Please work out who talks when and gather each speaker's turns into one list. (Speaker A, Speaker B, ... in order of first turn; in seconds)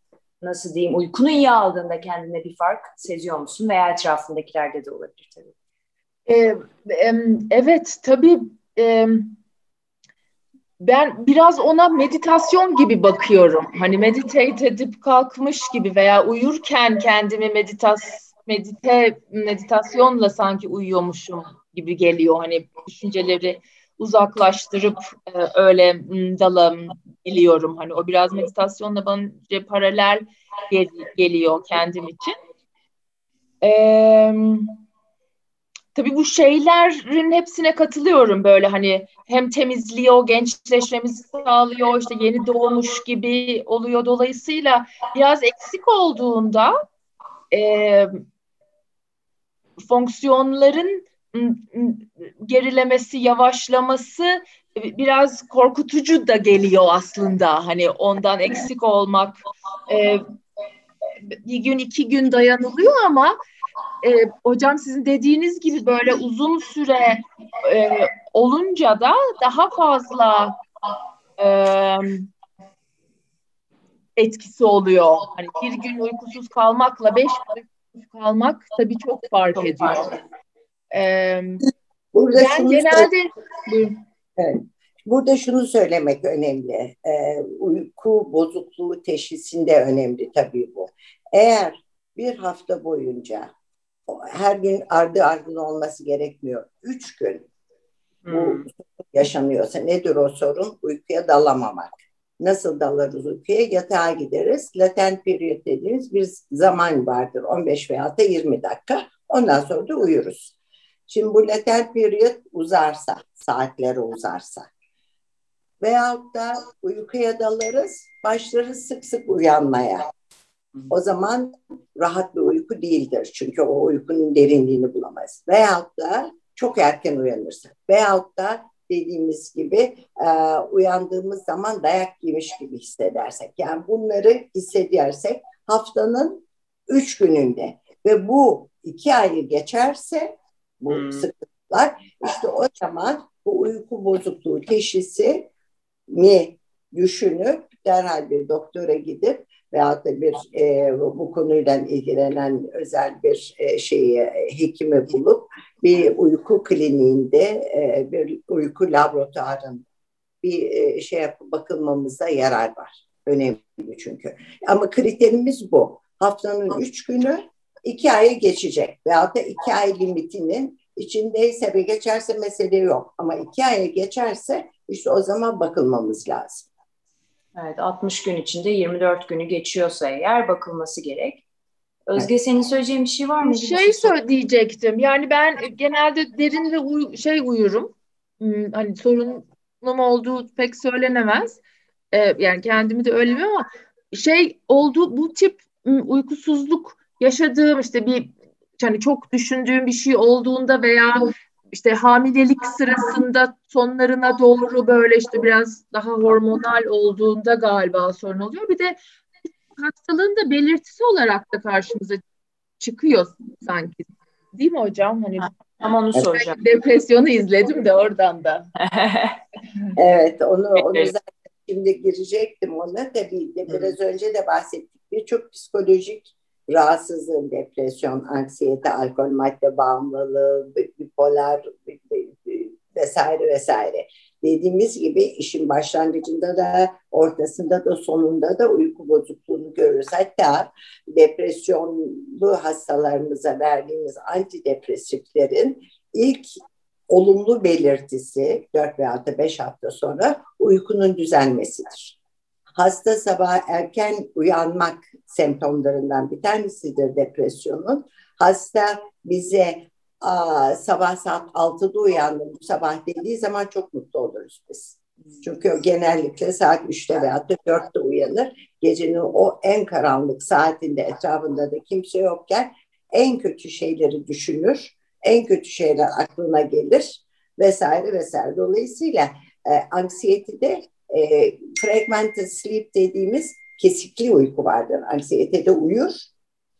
Speaker A: 0.4-5.5, 98.2-98.7, 140.9-141.3, 177.6-181.4, 182.1-184.1, 215.4-216.6, 218.8-219.4, 220.8-221.1
Speaker B: 6.3-9.4, 10.8-32.4, 33.6-34.8, 35.9-46.8, 47.5-48.2, 49.8-60.2, 61.3-63.3, 64.0-70.6, 71.4-72.3, 74.2-80.2, 80.9-81.7, 82.3-84.0, 183.4-191.6, 192.1-209.0, 209.7-212.2, 212.8-215.5, 216.3-218.7
Speaker C: 82.1-83.1, 84.4-93.5, 94.1-97.5, 98.3-110.5, 111.1-114.7, 115.8-120.1, 120.9-145.5, 146.1-159.8, 160.4-176.7, 219.9-246.6, 247.1-252.2, 252.8-286.3